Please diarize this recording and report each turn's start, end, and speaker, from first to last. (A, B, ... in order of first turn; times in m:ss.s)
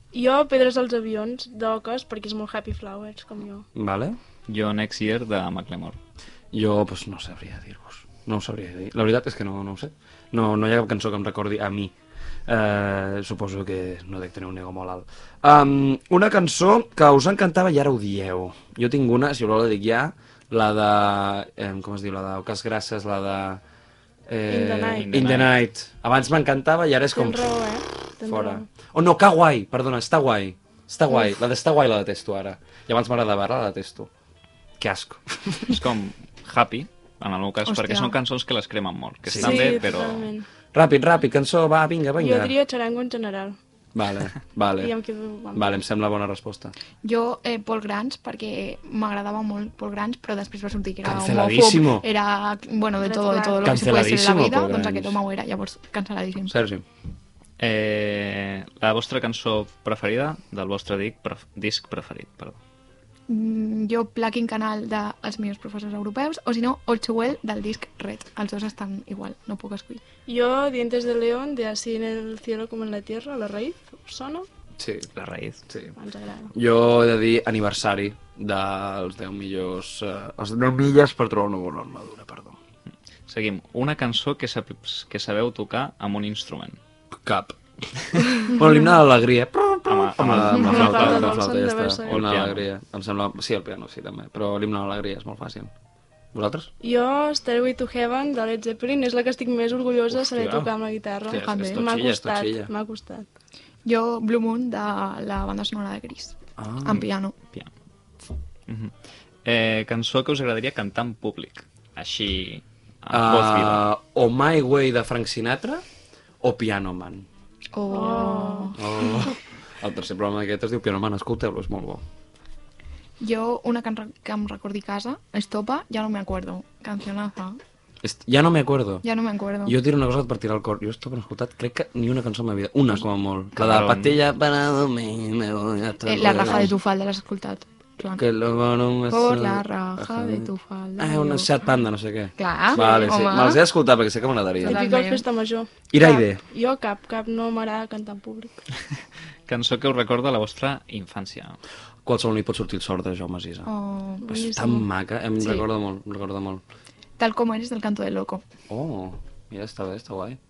0:00.1-0:03.7 A
0:03.8-0:04.2 B
0:04.5-0:06.0 C
0:06.5-0:11.9 B
0:12.5-0:23.6 B
0:24.3-0:27.5 B
0:24.5-0:25.2 A
0:25.0-0:25.5 C
0:27.1-0:28.7 A
0:28.2-0:34.1 B
0:34.8-0:35.8 B
0:35.7-0:40.3 C
0:37.6-0:38.2 D
0:39.3-0:39.9 B
0:39.4-0:40.5 A
0:40.7-0:42.6 B
0:42.2-0:43.6 A
0:43.9-0:44.9 B
0:44.8-0:45.8 A
0:45.5-0:46.7 B
0:47.0-0:56.6 D
0:51.0-0:52.0 B
0:53.0-0:54.1 A
0:53.6-0:55.2 B
0:56.5-0:56.8 B
0:57.6-1:02.6 C
1:03.3-1:10.0 D
1:10.3-1:14.5 A
1:14.8-1:15.1 B
1:15.1-1:15.6 C
1:15.7-1:16.0 B
1:16.0-1:16.5 A
1:16.5-1:22.6 B
1:23.3-1:26.8 C
1:27.2-1:27.6 B
1:28.1-1:35.7 B
1:29.9-1:31.4 C
1:30.5-1:32.2 A
1:32.0-1:32.6 C
1:36.3-1:36.7 B
1:36.8-1:43.3 A
1:40.1-1:40.7 B
1:41.3-1:42.7 B
1:41.3-1:41.8 D
1:43.8-1:47.4 D
1:46.6-1:47.1 B
1:48.7-1:48.9 C
1:49.4-1:53.8 C
1:53.1-1:55.8 B
1:56.4-1:57.3 B
1:57.7-1:59.3 D
1:57.9-1:58.8 A
1:58.8-2:02.0 B
2:03.2-2:07.6 D
2:08.0-2:09.1 B
2:09.0-2:09.8 D
2:09.6-2:16.8 B
2:13.6-2:14.2 C
2:16.0-2:18.2 D
2:18.2-2:24.8 B
2:19.1-2:21.5 D
2:22.4-2:23.6 D
2:22.7-2:23.1 A
2:24.6-2:25.2 D
2:24.6-2:28.6 A
2:25.9-2:26.4 B
2:29.5-2:31.6 C
2:32.1-2:33.7 B
2:33.7-2:34.3 D
2:34.2-2:34.9 A
2:34.3-2:36.6 B
2:37.2-2:38.4 D
2:38.7-2:40.4 B